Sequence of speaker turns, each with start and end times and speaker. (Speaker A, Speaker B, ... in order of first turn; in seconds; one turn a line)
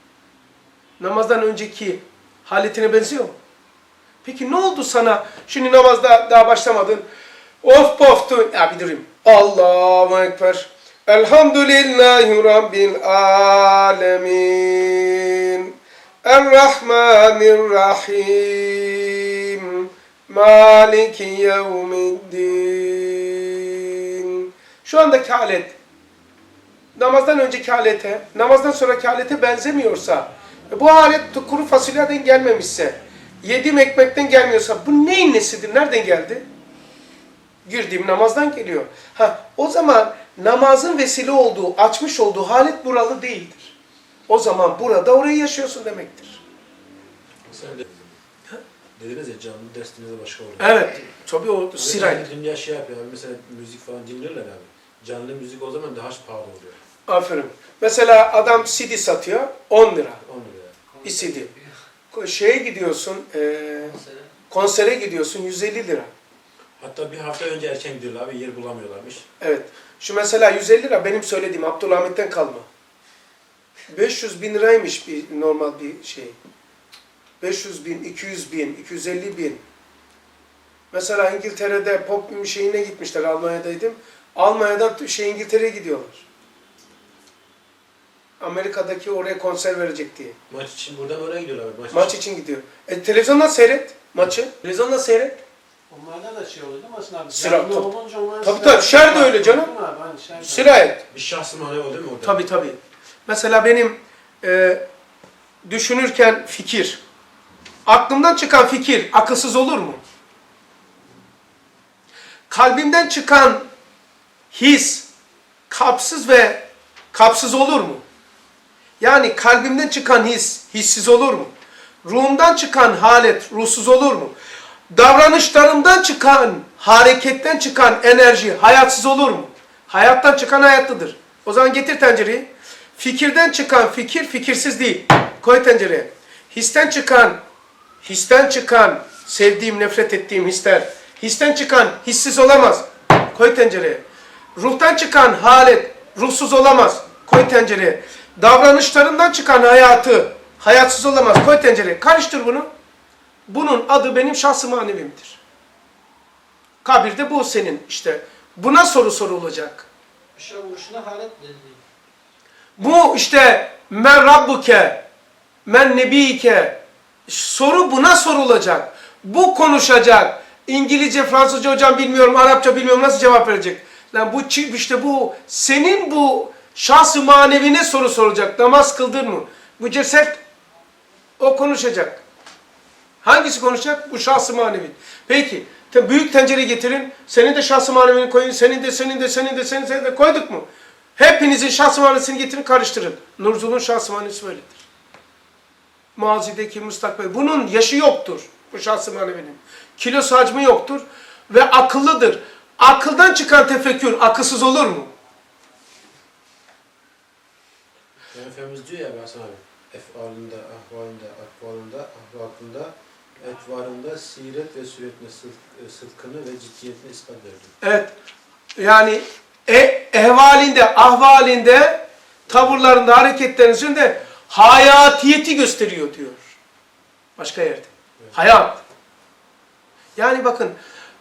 Speaker A: 1.0-3.3
Speaker A: 4.2-7.0
Speaker A: 7.6-15.7
Speaker A: 16.2-25.8
Speaker A: 26.9-36.5
Speaker A: 37.6-43.8
Speaker A: 44.3-46.4
Speaker B: 47.5-48.2
Speaker B: 49.0-50.7
Speaker A: 50.6-52.3
Speaker B: 51.8-56.8
Speaker A: 57.1-60.2
Speaker B: 60.2-60.8
Speaker C: 61.0-61.7
Speaker A: 61.0-61.5
Speaker A: 62.1-64.0
Speaker A: 64.5-66.1
Speaker B: 66.8-69.2
Speaker A: 69.4-72.7
Speaker A: 73.9-76.4
Speaker A: 77.4-79.6
Speaker A: 80.9-86.2
Speaker A: 88.4-90.4
Speaker B: 90.5-92.2
Speaker A: 91.9-95.4
Speaker C: 95.9-100.8
Speaker A: 97.3-97.9
Speaker A: 98.4-99.7
Speaker A: 100.4-101.0
Speaker B: 101.1-102.4
Speaker A: 102.2-104.8
Speaker A: 105.6-107.0
Speaker A: 107.9-110.0
Speaker A: 112.5-113.7
Speaker A: 114.5-115.1
Speaker A: 115.7-118.0
Speaker A: 119.0-121.5
Speaker A: 122.0-124.3
Speaker A: 124.9-137.4
Speaker A: 138.0-144.0
Speaker A: 144.6-152.7
Speaker A: 153.5-155.4
Speaker A: 156.8-159.9
Speaker C: 160.4-161.8
Speaker A: 162.8-165.0
Speaker A: 165.7-180.4
Speaker A: 181.4-182.2
Speaker A: 183.2-194.8
Speaker A: 196.2-205.1
Speaker B: 208.3-217.7
Speaker A: 217.8-218.1
Speaker A: 218.8-226.5
Speaker A: 227.4-228.8
Speaker A: 230.2-230.8